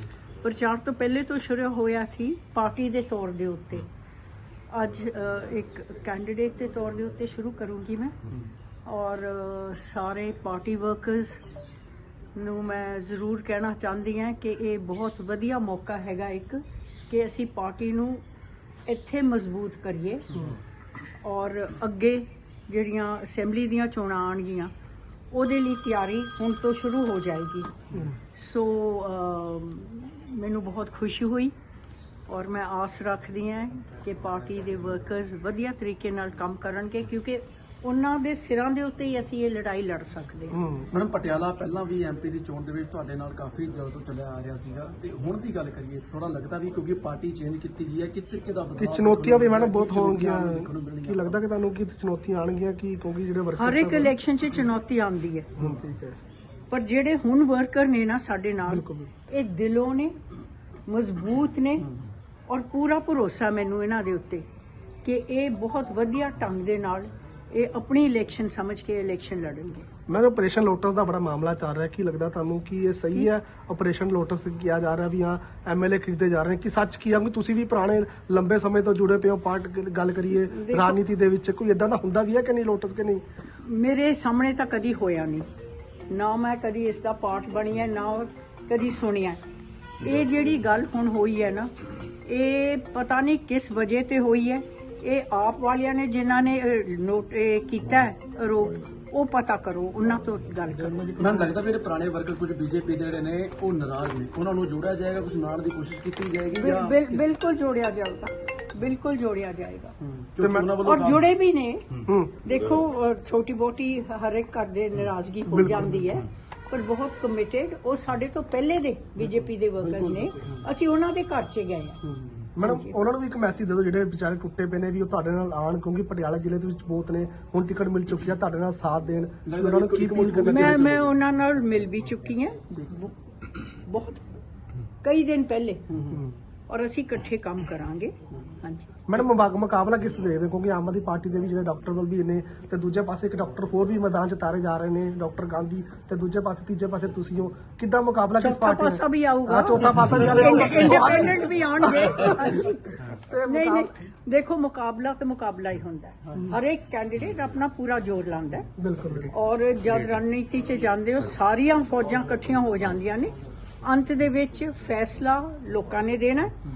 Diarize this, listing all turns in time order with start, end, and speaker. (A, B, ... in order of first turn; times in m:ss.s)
0:00.4-0:03.9 A
0:04.7-0:08.2 A
0:08.8-0:11.4 A
0:12.3-0:18.2 A
0:18.8-0:20.3 A
0:21.2-0:24.7 A
0:25.3-0:27.7 A
0:28.3-0:31.5 A
0:32.3-0:40.6 A
0:40.5-0:40.9 B
0:40.9-0:51.4 C
0:48.8-0:54.1 B
0:53.6-0:55.5 A
0:55.6-0:56.2 B
0:56.7-1:00.1 A
0:58.7-0:59.1 B
1:00.9-1:01.9 A
1:02.5-1:04.4 A
1:05.0-1:09.9 A
1:10.1-1:23.2 B
1:20.5-1:21.0 A
1:23.6-1:25.4 A
1:26.1-1:29.4 A
1:30.0-1:31.7 A
1:32.2-1:41.1 A
1:40.7-1:41.6 B
1:41.2-1:47.3 C
1:46.5-1:49.9 A
1:50.0-1:51.3 C
1:50.4-1:50.7 B
1:50.8-1:51.9 A
1:52.0-1:52.4 B
1:52.4-2:02.0 A
1:55.5-1:56.1 B
2:00.0-2:00.6 C
2:02.1-2:11.0 B
2:02.6-2:03.0 A
2:09.4-2:11.1 C
2:10.4-2:13.2 A
2:13.7-2:14.2 A
2:15.0-2:15.8 A
2:15.9-2:16.2 C
2:16.7-2:18.9 A
2:19.1-2:33.9 B
2:28.4-2:38.7 A
2:38.8-2:39.3 B
2:39.3-2:46.5 A